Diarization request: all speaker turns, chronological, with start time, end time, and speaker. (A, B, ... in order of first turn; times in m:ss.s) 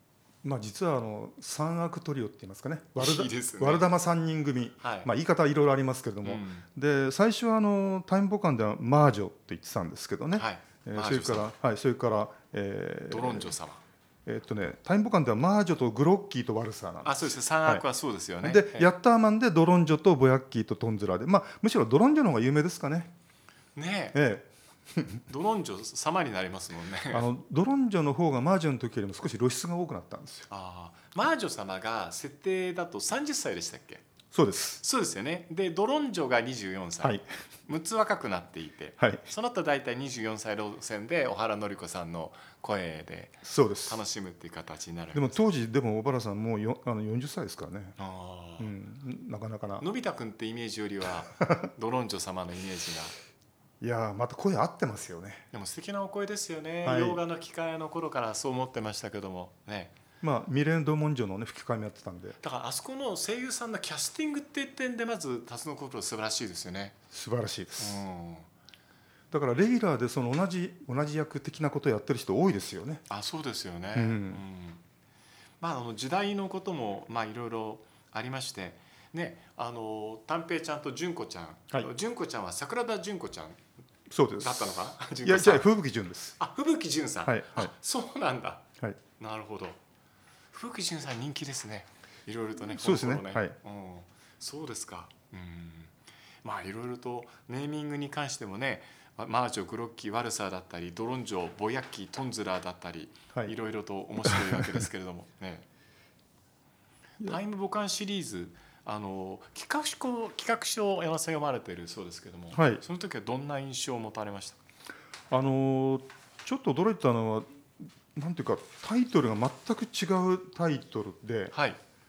0:00.4-0:13.5 A
0:03.0-0:03.9 B
0:04.8-0:05.1 B
0:06.2-0:06.7 B
0:10.4-0:11.5 B
0:13.1-0:13.8 B
0:14.3-0:17.8 A
0:17.0-0:18.9 B
0:18.4-0:23.1 A
0:23.8-0:24.2 B
0:24.1-0:25.2 A
0:25.3-0:27.3 B
0:27.1-0:30.5 A
0:30.5-0:34.0 B
0:34.3-0:34.8 A
0:34.8-0:45.4 B
0:43.4-0:44.0 A
0:45.1-0:48.0 A
0:48.0-0:48.7 B
0:48.6-0:49.8 A
0:49.8-0:53.2 B
0:51.4-0:51.7 A
0:53.8-0:55.4 A
0:55.5-0:59.9 B
0:56.8-0:57.2 A
1:00.2-1:02.4 A
1:02.4-1:07.0 B
1:07.1-1:08.0 A
1:07.8-1:08.5 B
1:09.3-1:13.0 A
1:13.1-1:14.8 B
1:14.0-1:14.4 A
1:15.6-1:23.6 B
1:24.1-1:26.4 A
1:24.4-1:25.7 B
1:26.4-1:28.6 B
1:27.2-1:27.7 A
1:29.2-1:29.8 B
1:30.5-1:35.9 B
1:32.7-1:33.6 A
1:36.4-1:45.7 B
1:44.2-1:44.8 A
1:47.2-1:54.6 B
1:52.5-1:52.8 A
1:55.3-2:01.5 A
2:01.5-2:01.8 B